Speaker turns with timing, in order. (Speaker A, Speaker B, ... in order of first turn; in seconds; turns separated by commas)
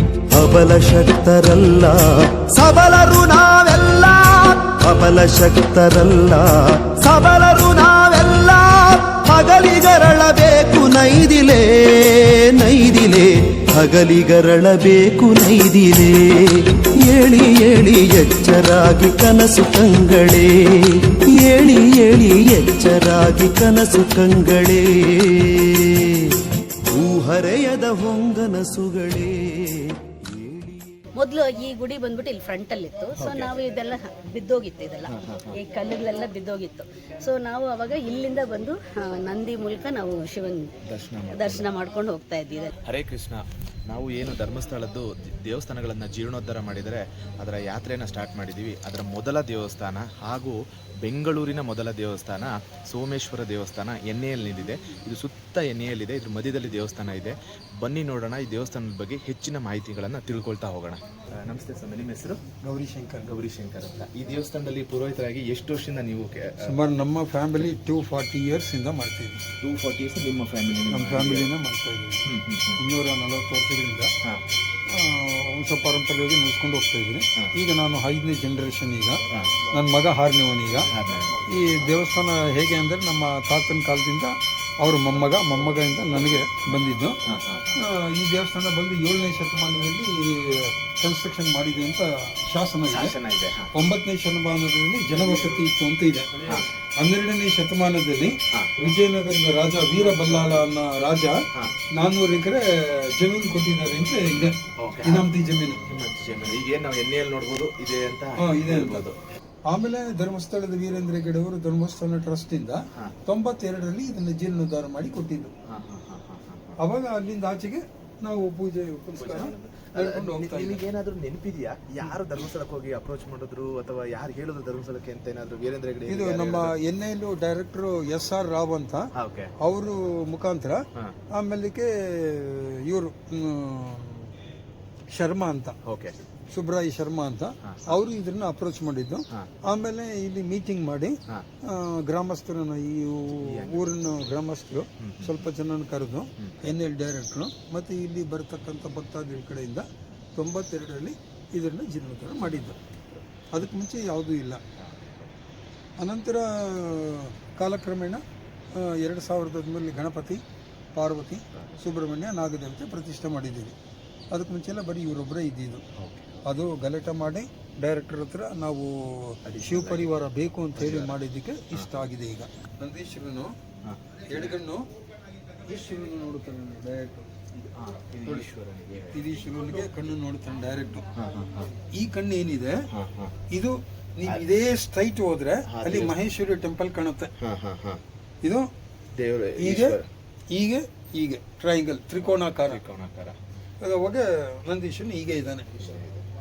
Speaker A: 0.3-31.0, Speaker B: 31.1-40.7, Speaker C: 33.1-33.5, Speaker C: 35.1-35.6, Speaker C: 40.9-41.7, Speaker B: 41.3-42.7, Speaker C: 42.8-62.4, Speaker D: 62.6-63.4, Speaker C: 63.2-66.8, Speaker D: 66.6-69.4, Speaker C: 69.6-71.5, Speaker D: 70.9-72.2, Speaker C: 72.2-72.8, Speaker D: 72.8-74.1, Speaker D: 74.9-80.9, Speaker C: 79.3-79.6, Speaker C: 80.9-82.0, Speaker D: 81.5-87.2, Speaker C: 85.1-87.8, Speaker D: 87.8-93.2, Speaker C: 92.9-93.7, Speaker D: 93.7-96.5, Speaker C: 95.1-95.6, Speaker D: 97.0-101.4, Speaker C: 98.5-98.9, Speaker C: 99.9-100.6, Speaker D: 101.9-105.9, Speaker C: 104.3-109.1, Speaker D: 108.3-109.1, Speaker D: 109.7-115.5, Speaker C: 115.7-116.7, Speaker D: 116.8-120.8, Speaker C: 119.1-126.7, Speaker D: 126.0-129.1, Speaker C: 129.2-129.5, Speaker D: 129.6-134.3, Speaker D: 135.1-135.8, Speaker C: 135.8-136.2, Speaker D: 136.5-152.8, Speaker C: 137.6-138.0, Speaker C: 143.2-144.4, Speaker C: 145.0-145.5, Speaker C: 146.4-146.7, Speaker C: 152.4-153.2, Speaker D: 153.5-154.6, Speaker C: 154.8-155.3, Speaker D: 156.0-160.4, Speaker D: 160.9-163.8, Speaker C: 161.5-161.8, Speaker D: 164.3-165.8, Speaker C: 166.0-166.3, Speaker D: 166.4-173.5, Speaker C: 169.5-170.1, Speaker C: 170.8-171.2, Speaker C: 171.7-172.1, Speaker C: 173.8-174.6, Speaker D: 174.3-174.9, Speaker D: 175.7-177.4, Speaker C: 177.6-179.9, Speaker D: 178.2-178.5, Speaker D: 179.1-181.1, Speaker C: 181.2-181.7, Speaker D: 181.8-182.8, Speaker C: 182.9-183.3, Speaker D: 183.5-187.3, Speaker C: 185.7-186.1, Speaker C: 187.4-188.0, Speaker D: 188.4-188.7, Speaker C: 189.2-190.0, Speaker D: 189.6-190.0, Speaker D: 190.5-192.8, Speaker C: 192.2-193.4, Speaker D: 193.8-195.7, Speaker C: 195.8-196.2